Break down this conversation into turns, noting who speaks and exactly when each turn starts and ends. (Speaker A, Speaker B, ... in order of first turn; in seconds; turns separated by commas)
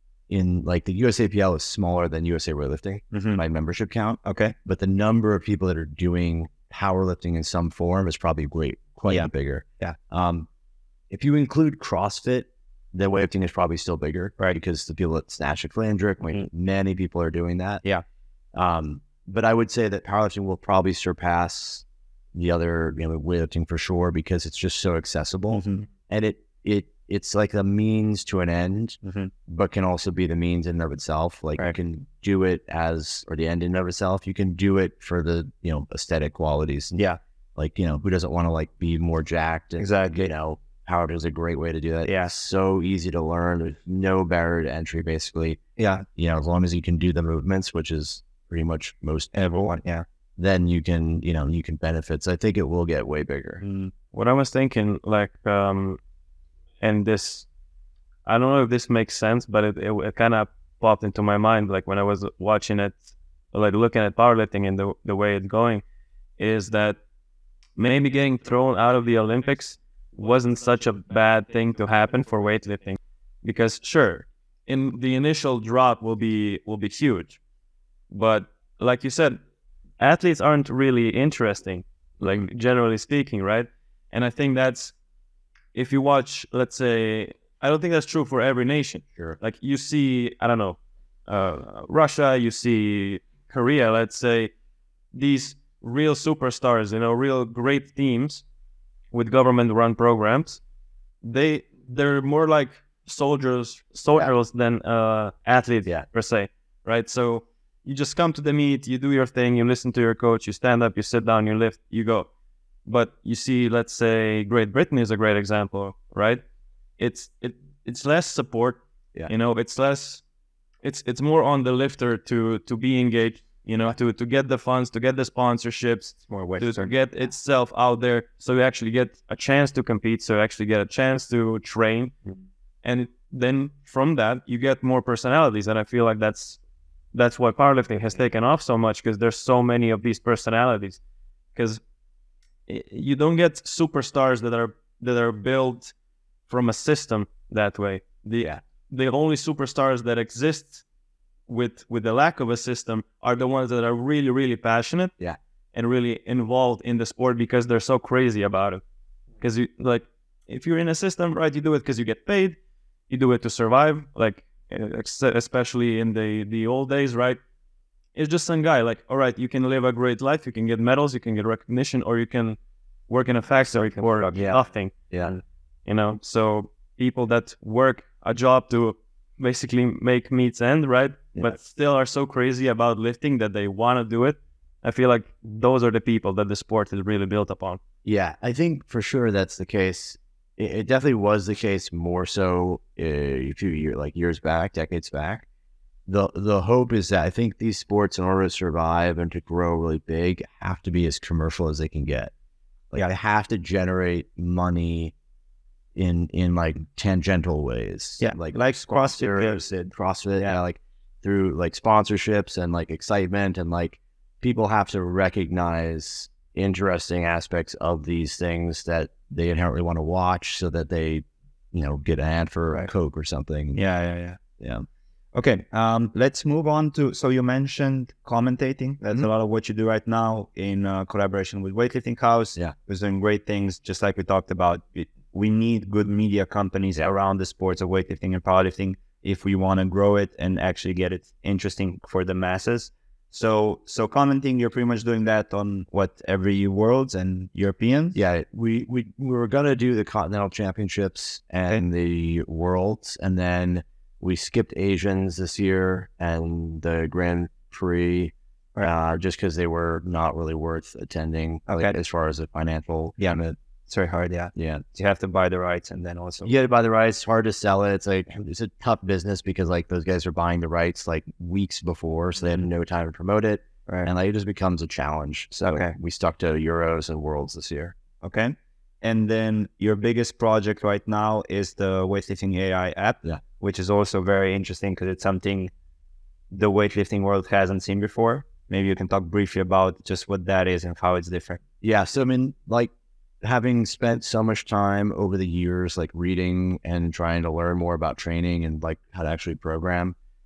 Speaker A: 0.3-10.5, Speaker B: 3.1-3.4, Speaker B: 4.2-4.5, Speaker B: 9.1-10.0, Speaker A: 11.1-17.8, Speaker A: 18.6-37.0, Speaker B: 25.5-25.9, Speaker B: 29.0-29.3, Speaker B: 36.9-37.2, Speaker A: 37.6-45.6, Speaker B: 39.8-40.3, Speaker B: 42.1-42.3, Speaker B: 45.8-46.0, Speaker A: 46.1-49.7, Speaker B: 49.3-50.0, Speaker A: 50.4-53.6, Speaker B: 53.6-53.9, Speaker C: 54.1-56.0, Speaker C: 56.8-57.5, Speaker C: 58.3-65.8, Speaker C: 66.4-67.0, Speaker C: 67.8-77.4, Speaker C: 78.1-79.4, Speaker C: 80.0-84.9, Speaker C: 85.7-94.5, Speaker C: 95.1-98.4, Speaker C: 99.1-100.6, Speaker C: 101.2-112.3, Speaker C: 112.9-116.4, Speaker C: 117.0-120.2, Speaker C: 120.8-136.6, Speaker B: 126.3-126.9, Speaker C: 137.1-141.0, Speaker C: 141.6-141.8, Speaker C: 142.7-145.9, Speaker C: 146.5-150.8, Speaker C: 151.5-155.1, Speaker C: 155.7-158.8, Speaker C: 159.4-162.6, Speaker C: 163.1-167.4, Speaker C: 168.2-172.6, Speaker C: 173.1-187.8, Speaker B: 174.0-174.4, Speaker A: 174.3-175.3, Speaker A: 188.1-195.4, Speaker A: 196.1-202.3, Speaker A: 202.9-205.1, Speaker A: 206.0-223.8, Speaker B: 208.2-210.6, Speaker B: 223.8-224.4, Speaker A: 224.6-224.9, Speaker B: 225.3-248.2, Speaker A: 248.2-263.6, Speaker B: 261.7-261.9, Speaker B: 263.2-266.5, Speaker A: 264.6-264.8, Speaker A: 266.4-277.9, Speaker B: 275.5-275.9, Speaker B: 278.2-285.7, Speaker B: 286.5-291.6, Speaker A: 291.8-292.9, Speaker A: 293.4-300.2